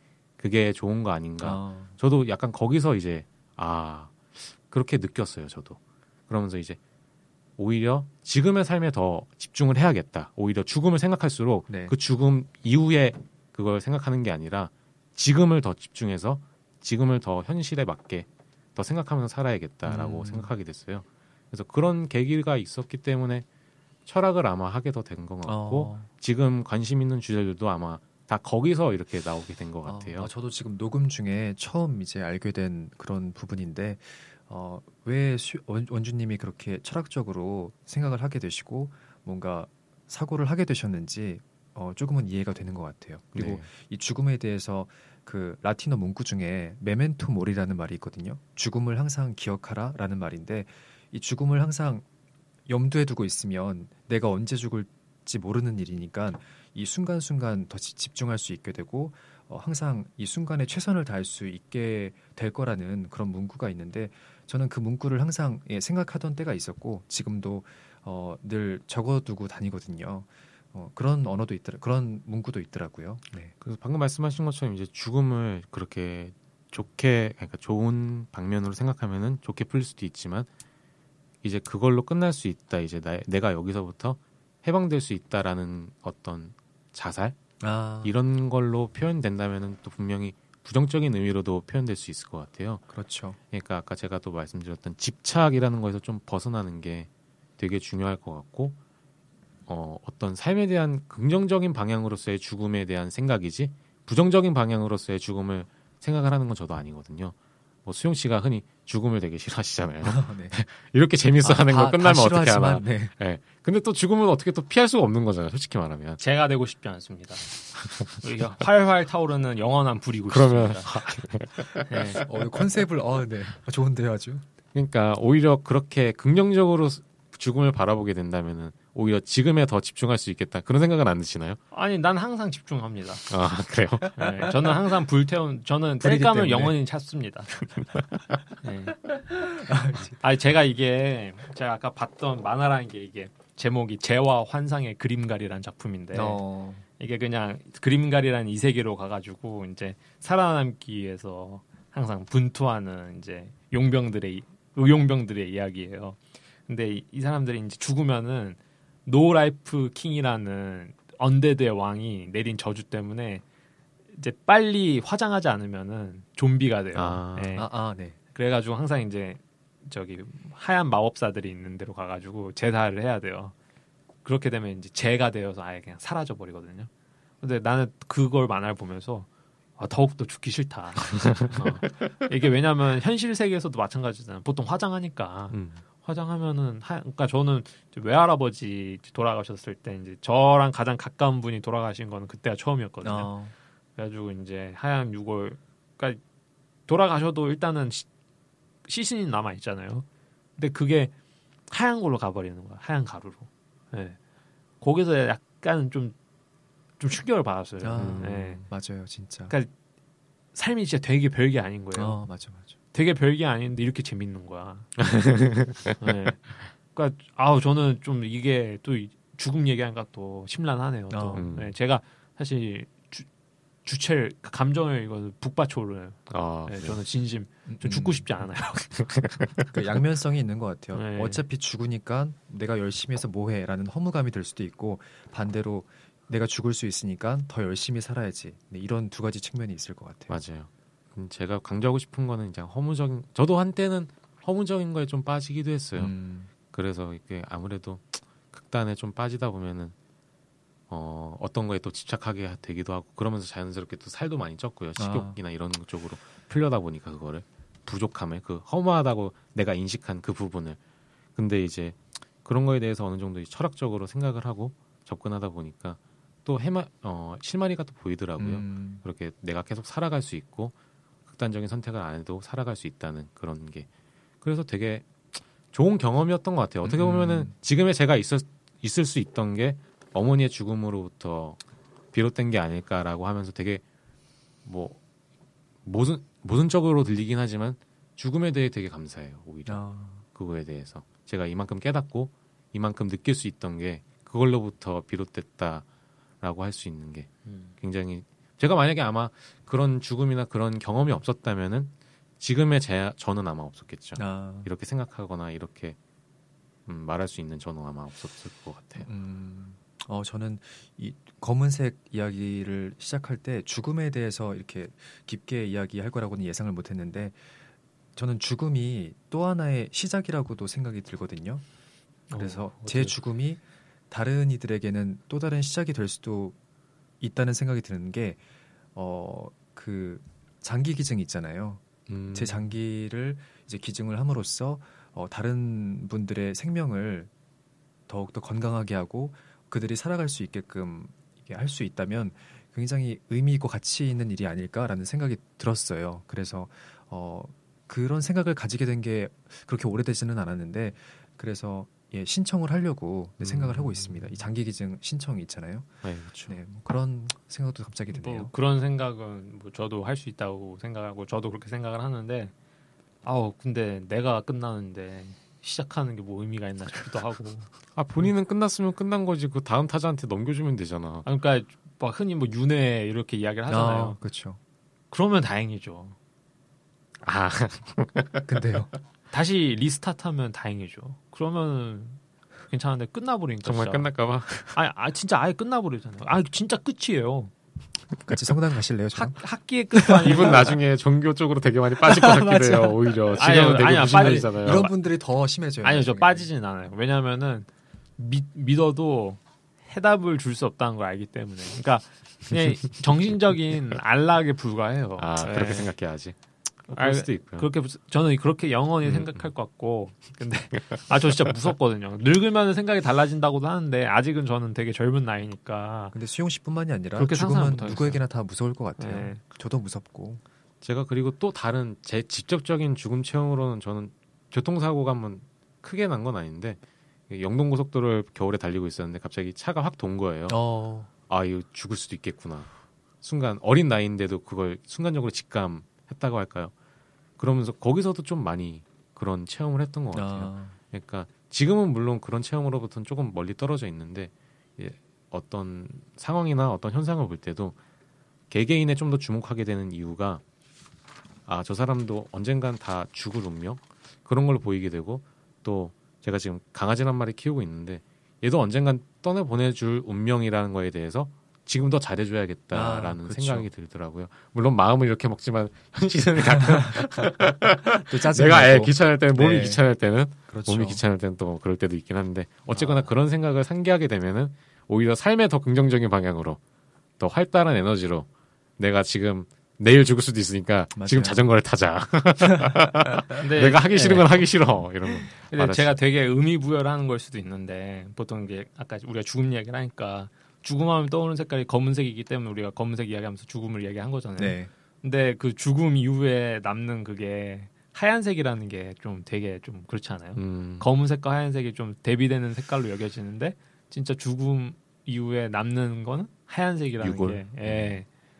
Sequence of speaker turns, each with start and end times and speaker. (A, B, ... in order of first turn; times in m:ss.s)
0:00.4-0:06.8 A
0:01.4-0:02.0 B
0:07.6-0:23.4 A
0:11.7-0:11.9 B
0:19.8-0:20.5 B
0:24.0-0:30.3 A
0:25.4-0:26.1 B
0:29.8-0:52.0 B
0:43.3-0:43.6 A
0:52.7-1:13.5 B
1:13.6-1:20.5 A
1:21.4-1:27.4 A
1:27.6-1:28.1 B
1:28.0-1:32.8 A
1:32.9-1:33.4 B
1:33.5-1:38.8 A
1:39.7-1:56.2 A
1:50.0-1:50.5 B
1:51.4-1:53.1 B
1:56.2-1:57.5 C
1:57.8-1:58.1 A
1:58.0-2:00.9 C
2:00.3-2:02.6 A
2:01.9-2:02.2 C
2:02.2-2:04.4 B
2:04.7-2:11.6 A
2:11.7-2:13.2 C
2:13.3-2:14.5 A
2:14.1-2:17.6 C
2:16.0-2:16.7 B
2:18.6-2:19.0 C
2:19.2-2:20.2 B
2:20.2-2:26.4 C
2:26.1-2:26.8 B
2:27.0-2:43.4 C
2:44.1-2:47.7 C
2:46.9-2:47.6 A
2:47.6-2:48.2 B
2:48.3-2:53.5 C
2:54.2-2:56.9 C
2:57.4-3:13.3 C
3:05.5-3:05.8 A
3:13.0-3:13.5 B
3:14.0-3:16.2 C
3:16.9-3:18.0 C
3:18.8-3:20.0 C
3:20.6-3:21.1 C
3:21.7-3:24.2 C
3:24.8-3:26.1 C
3:27.0-3:28.6 C
3:27.8-3:29.5 B
3:28.0-3:28.3 A
3:30.5-3:32.2 C
3:31.9-3:32.7 B
3:32.9-3:34.9 C
3:35.0-3:36.7 A
3:36.0-3:43.3 C
3:41.1-3:41.4 B
3:41.3-3:41.7 A
3:43.8-3:49.0 C
3:46.3-3:47.0 A
3:47.7-3:48.3 B
3:48.9-3:49.7 A
3:49.7-4:00.4 B
3:50.9-3:51.4 C
4:00.3-4:06.1 A
4:06.0-4:06.5 B
4:06.7-4:09.9 A
4:10.9-4:20.8 A
4:15.0-4:15.4 B
4:21.4-4:30.7 A
4:28.4-4:29.0 B
4:31.3-4:33.9 A
4:34.4-4:41.6 A
4:36.8-4:37.5 B
4:42.1-4:43.8 A
4:44.6-4:45.0 A
4:45.8-4:49.8 A
4:49.7-4:50.2 B
4:50.3-4:55.8 A
4:56.4-5:06.0 A
4:57.4-4:57.7 C
5:04.2-5:04.7 B
5:06.9-5:09.1 A
5:09.0-5:17.4 B
5:18.1-5:21.6 B
5:22.3-5:23.2 C
5:22.4-5:26.6 B
5:27.2-5:28.4 B
5:28.9-5:37.3 B
5:32.1-5:32.7 A
5:38.1-5:58.5 B
5:53.4-5:54.4 A
5:56.0-5:56.6 A
5:58.1-6:02.5 C
6:03.2-6:07.7 C
6:07.9-6:11.2 A
6:11.2-6:14.2 C
6:13.7-6:14.6 B
6:15.1-6:16.2 C
6:17.2-6:18.5 A
6:18.4-6:18.9 B
6:19.3-6:24.1 C
6:23.6-6:24.8 A
6:24.7-6:27.5 C
6:28.2-6:29.4 B
6:29.1-6:30.8 C
6:30.0-6:30.7 B
6:30.2-6:34.9 A
6:32.0-6:36.5 B
6:33.4-6:34.8 C
6:35.8-6:45.9 C
6:45.2-6:47.7 A
6:46.9-6:56.1 C
6:49.0-6:49.5 A
6:50.8-6:51.1 A
6:56.1-7:00.4 B
6:57.2-6:58.2 C
6:57.8-6:58.2 A
6:59.0-6:59.4 C
7:00.8-7:10.6 A
7:10.5-7:11.1 B
7:11.3-7:12.7 A
7:13.2-7:16.7 A
7:17.4-7:27.8 A
7:20.1-7:20.8 B
7:28.5-7:30.4 A
7:31.5-7:56.6 A
7:42.7-7:43.7 B
7:46.9-7:49.8 B
7:50.5-7:51.0 B
7:52.7-7:53.1 B
7:57.2-7:58.3 A
7:58.8-8:05.9 A
8:00.9-8:01.4 B
8:03.4-8:04.4 C
8:05.5-8:28.1 C
8:14.4-8:14.7 B
8:20.4-8:20.8 A
8:27.0-8:28.0 A